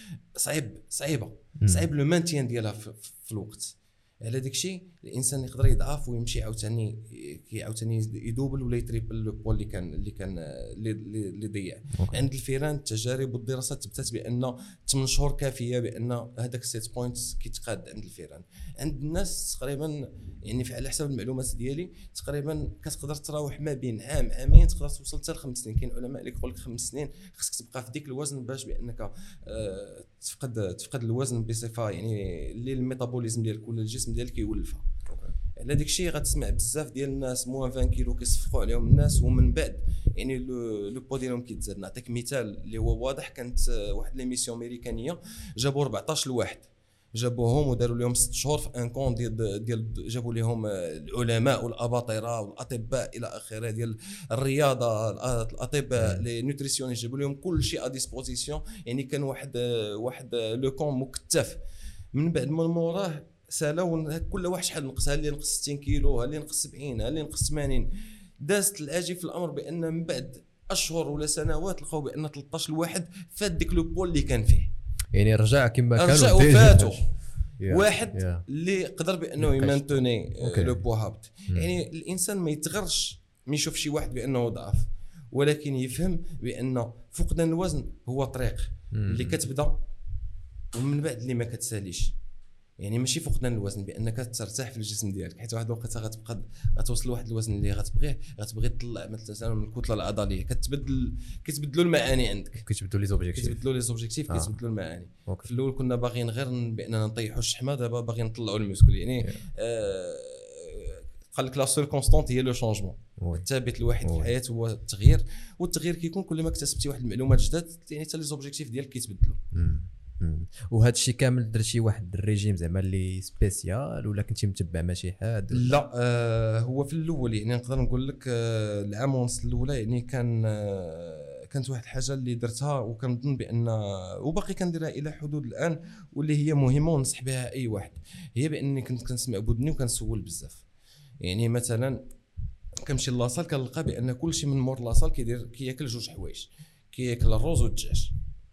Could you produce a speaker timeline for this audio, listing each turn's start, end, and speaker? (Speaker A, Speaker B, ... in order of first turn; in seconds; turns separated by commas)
Speaker A: 0.3-34.9, Speaker B: 1.6-1.9, Speaker B: 11.9-12.2, Speaker A: 35.6-61.6, Speaker A: 62.1-67.9, Speaker A: 68.4-74.7, Speaker B: 75.1-78.5, Speaker A: 76.0-89.8, Speaker B: 79.4-80.9, Speaker B: 88.9-89.4, Speaker A: 90.7-92.1, Speaker A: 92.8-102.6, Speaker B: 102.6-103.6, Speaker A: 103.3-119.4, Speaker B: 104.3-104.6, Speaker B: 109.2-109.5, Speaker B: 113.2-113.5, Speaker B: 114.0-114.3, Speaker B: 119.5-125.7, Speaker A: 125.5-140.6, Speaker A: 141.2-142.0, Speaker A: 142.8-148.1